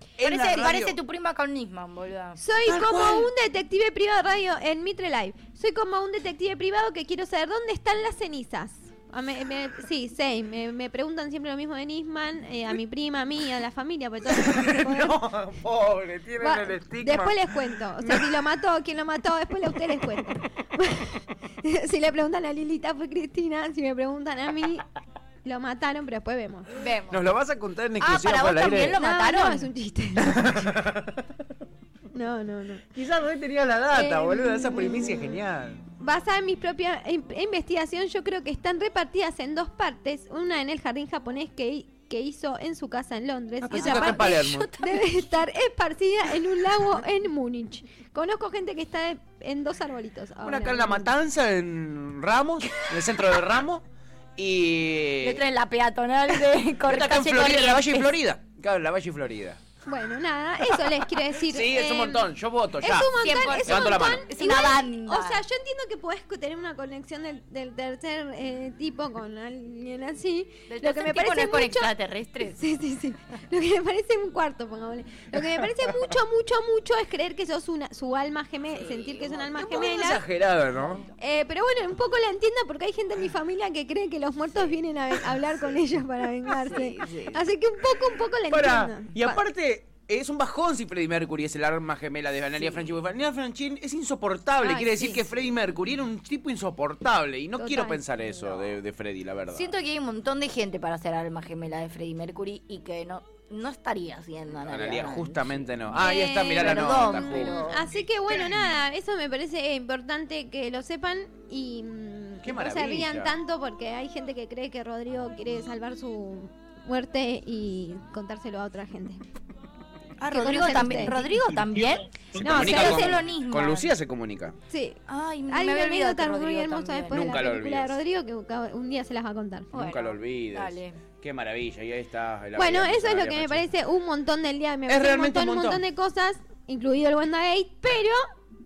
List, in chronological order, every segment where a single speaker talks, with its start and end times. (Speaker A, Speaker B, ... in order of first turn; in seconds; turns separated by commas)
Speaker A: 0.2-1.0, Speaker B: 0.2-2.4, Speaker C: 2.4-15.2, Speaker A: 2.7-3.3, Speaker A: 14.3-17.4, Speaker C: 16.4-24.9, Speaker A: 18.0-18.3, Speaker C: 25.4-26.7, Speaker B: 26.8-27.2, Speaker A: 27.1-29.0, Speaker B: 28.0-29.7, Speaker C: 29.0-30.8, Speaker A: 30.2-31.2, Speaker C: 32.1-32.8, Speaker A: 32.9-35.8, Speaker C: 33.9-35.3, Speaker C: 36.0-51.1, Speaker A: 43.6-44.7, Speaker B: 43.7-45.1, Speaker A: 50.4-53.8, Speaker A: 54.4-55.4, Speaker B: 55.2-58.1, Speaker A: 56.8-59.6, Speaker C: 59.9-62.3, Speaker A: 61.4-64.4, Speaker C: 62.8-80.2, Speaker B: 63.1-65.4, Speaker B: 70.7-72.6, Speaker A: 75.3-76.1, Speaker B: 78.7-79.9, Speaker A: 79.5-81.0, Speaker C: 81.2-89.4, Speaker B: 86.6-87.4, Speaker A: 88.5-99.7, Speaker B: 92.5-92.9, Speaker B: 94.6-95.3, Speaker C: 97.6-98.0, Speaker B: 99.5-105.4, Speaker A: 104.7-107.6, Speaker C: 105.9-119.2, Speaker B: 106.5-107.9, Speaker A: 112.4-113.3, Speaker B: 120.2-123.9, Speaker C: 120.3-121.2, Speaker C: 122.4-123.2, Speaker A: 122.4-124.5, Speaker C: 124.7-129.7, Speaker B: 125.1-127.2, Speaker A: 127.1-128.0, Speaker B: 129.7-131.0, Speaker A: 129.7-133.7, Speaker C: 132.6-138.2, Speaker A: 134.9-135.8